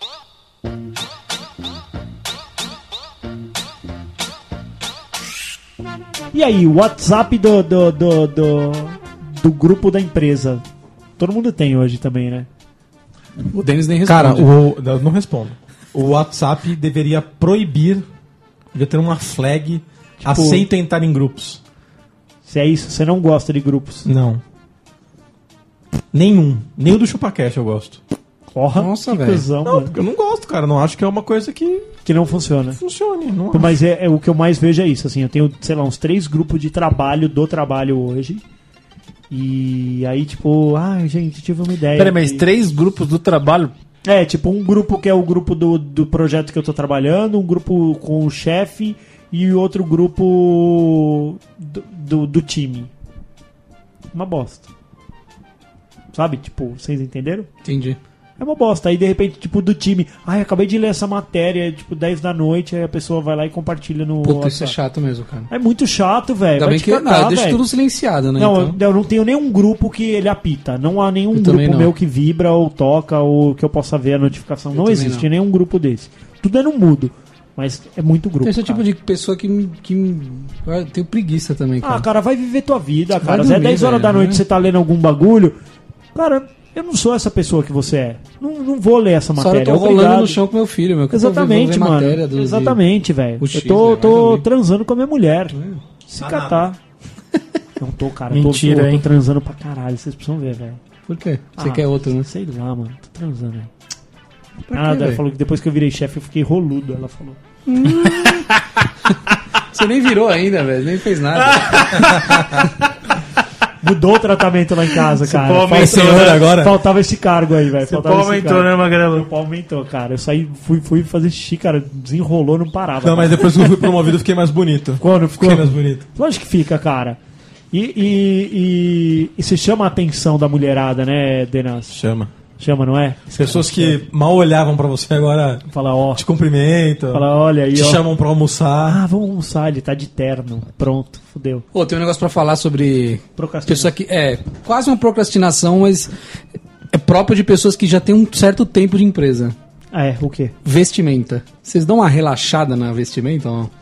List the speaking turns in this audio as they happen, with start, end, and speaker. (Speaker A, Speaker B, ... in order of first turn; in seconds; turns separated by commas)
Speaker A: 6.3-10.6, Speaker A: 11.2-12.5, Speaker B: 13.5-14.5, Speaker C: 14.0-18.1, Speaker C: 18.7-21.6, Speaker A: 20.2-20.6, Speaker A: 22.4-24.1, Speaker C: 24.0-24.4, Speaker C: 26.1-28.0, Speaker A: 28.5-29.9, Speaker B: 28.8-29.4, Speaker C: 29.6-31.9, Speaker A: 32.0-32.8, Speaker C: 32.8-33.8, Speaker A: 33.5-38.4, Speaker A: 39.3-42.4, Speaker D: 41.9-43.7, Speaker A: 44.0-52.9, Speaker A: 54.1-54.7, Speaker A: 56.1-57.5, Speaker B: 57.6-58.0, Speaker A: 58.4-64.8, Speaker B: 64.2-65.5, Speaker A: 65.5-67.6, Speaker B: 66.6-68.8, Speaker A: 68.4-78.8, Speaker B: 71.3-71.9, Speaker B: 74.7-75.3, Speaker B: 78.4-82.0, Speaker A: 81.8-85.6, Speaker B: 83.2-84.4, Speaker A: 86.1-90.4, Speaker B: 89.4-92.8, Speaker A: 91.1-96.8, Speaker B: 93.4-94.5, Speaker B: 95.5-95.8, Speaker C: 96.2-96.7, Speaker A: 97.8-100.8, Speaker D: 98.3-99.0, Speaker B: 101.1-102.3, Speaker A: 101.6-103.7, Speaker B: 104.7-105.2, Speaker A: 104.7-107.4, Speaker B: 107.7-108.5, Speaker D: 108.1-108.6, Speaker B: 109.6-112.3, Speaker D: 111.4-112.4, Speaker A: 113.8-123.8, Speaker D: 115.1-116.5, Speaker C: 115.7-116.8, Speaker D: 117.8-119.3, Speaker C: 123.0-126.0, Speaker A: 125.0-127.2, Speaker A: 127.7-131.9, Speaker C: 131.9-132.3, Speaker A: 132.6-134.0, Speaker C: 133.3-139.0, Speaker A: 135.7-136.2, Speaker A: 137.1-138.0, Speaker A: 138.9-141.7, Speaker B: 141.7-146.1, Speaker A: 143.4-143.9, Speaker B: 146.9-149.5, Speaker A: 149.9-150.5, Speaker B: 150.6-153.7